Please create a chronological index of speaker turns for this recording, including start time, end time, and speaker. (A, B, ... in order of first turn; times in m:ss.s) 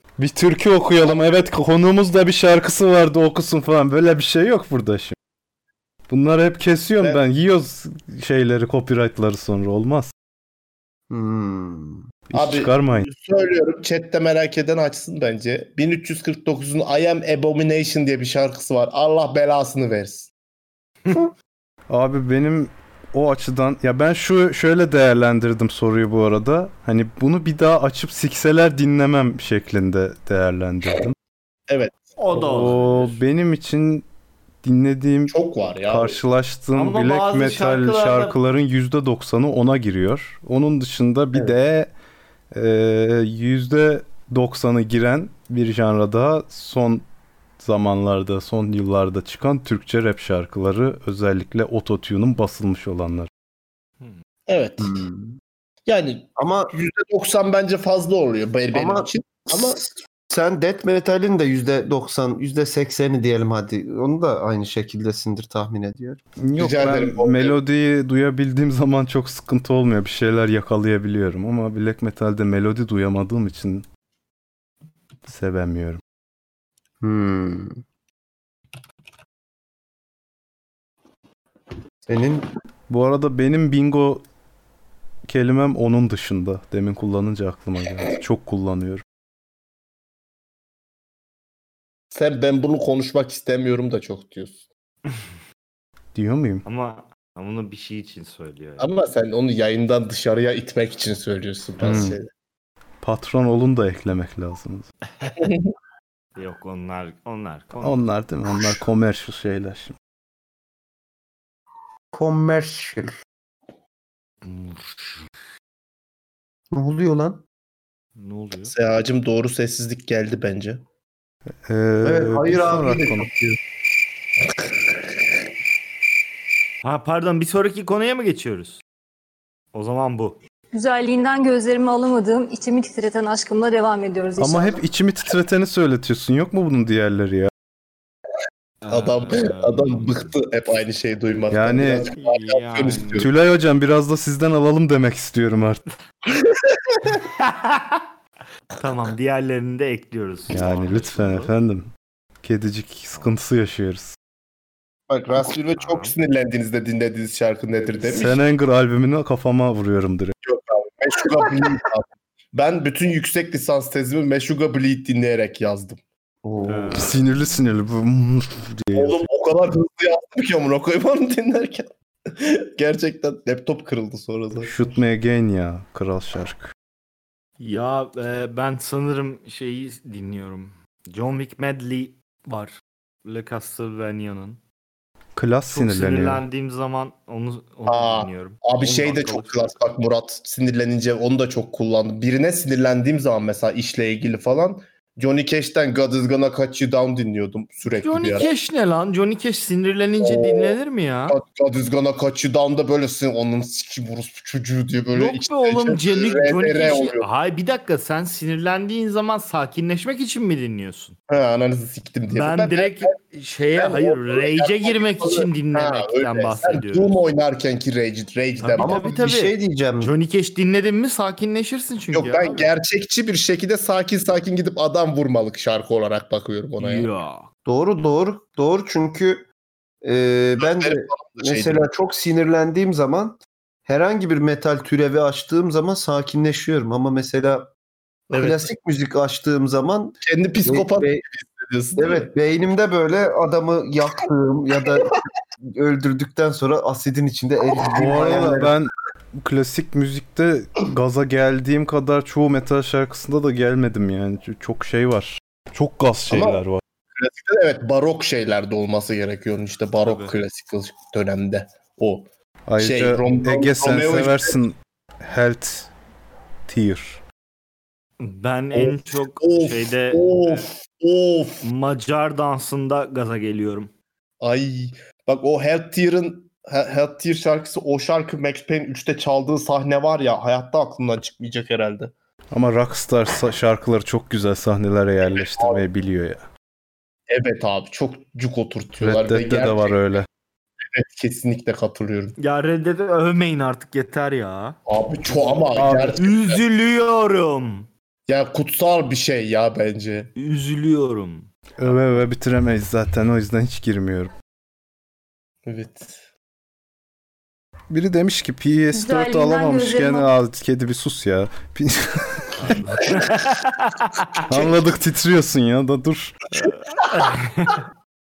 0:00.2-0:05.1 A
0:06.1-0:10.1 A
0:11.1-0:12.0 B
0:12.3-0:13.1 A
0:12.3-0:20.3 C
0:21.9-0:31.1 A
0:31.7-0:32.0 C
0:32.2-0:33.2 D
0:32.3-0:34.0 A
0:34.6-0:35.4 A
0:35.3-0:36.2 C
0:35.9-0:41.9 A
0:36.7-0:38.4 D
0:42.5-0:47.0 A
0:47.6-0:53.3 A
0:54.5-0:55.0 C
0:54.8-0:55.3 B
0:55.9-0:59.8 C
0:56.4-0:56.7 B
0:58.7-1:06.2 B
1:06.4-1:13.8 A
1:06.6-1:07.6 C
1:15.2-1:16.0 A
1:17.0-1:17.8 B
1:22.1-1:22.5 B
1:22.9-1:24.2 A
1:25.3-1:29.0 A
1:32.1-1:34.6 C
1:36.1-1:36.6 A
1:36.6-1:38.9 D
1:38.8-1:42.3 C
1:41.8-1:42.2 A
1:43.0-1:44.9 A
1:45.4-1:45.7 C
1:46.4-1:48.1 D
1:47.8-1:49.9 A
1:52.1-1:53.1 B
1:54.4-1:55.2 D
1:56.7-1:57.4 B
1:58.2-1:58.7 D
1:58.7-2:00.8 C
2:01.6-2:03.3 A
2:02.0-2:03.6 B
2:06.8-2:08.8 D
2:09.7-2:10.4 D
2:10.7-2:14.8 E
2:14.4-2:17.5 A
2:18.8-2:20.3 D
2:18.9-2:23.3 C
2:21.5-2:22.1 A
2:22.1-2:23.2 D
2:23.2-2:25.8 A
2:27.2-2:28.0 D
2:28.8-2:31.5 D
2:30.5-2:31.9 A
2:32.4-2:34.1 A
2:35.1-2:38.4 C
2:35.8-2:36.1 D
2:38.1-2:40.3 A
2:40.4-2:46.0 C
2:46.4-2:47.0 B
2:46.7-2:47.2 D
2:46.9-2:49.3 A
2:48.9-2:54.8 C
2:54.6-2:56.7 A
2:57.6-3:04.6 D
3:05.3-3:06.4 A
3:05.7-3:09.8 D
3:07.9-3:18.5 C
3:18.0-3:21.4 D
3:20.2-3:20.8 C
3:21.3-3:27.3 C
3:25.1-3:31.2 D
3:31.3-3:33.2 C
3:32.3-3:37.2 D
3:33.8-3:39.1 C
3:38.6-3:42.7 D
3:38.8-3:40.1 B
3:42.1-3:47.1 C
3:46.8-3:47.5 D
3:47.6-3:49.5 B
3:50.0-3:57.7 B
3:50.6-3:51.8 C
3:58.3-3:58.7 C
3:58.3-4:01.2 B
4:00.2-4:02.3 C
4:02.0-4:08.7 B
4:07.9-4:16.8 A
4:16.3-4:16.6 C
4:17.1-4:22.3 C
4:20.0-4:20.3 D
4:22.7-4:25.9 A
4:22.8-4:24.6 C
4:26.7-4:27.2 A
4:28.2-4:30.7 D
4:28.7-4:31.6 C
4:31.6-4:33.9 D
4:34.4-4:42.1 C
4:42.5-4:46.4 A
4:45.2-4:45.8 C
4:47.3-4:50.1 C
4:49.0-4:50.3 A
4:50.8-4:52.4 C
4:52.4-4:54.8 D
4:54.9-4:56.6 C
4:55.4-4:57.9 D
4:55.7-4:56.2 A
4:58.3-5:00.3 C
5:00.4-5:02.1 D
5:01.8-5:04.3 A
5:05.6-5:06.2 C
5:07.9-5:12.7 A
5:08.9-5:10.3 E
5:12.6-5:14.4 D
5:14.5-5:16.4 A
5:16.6-5:17.8 D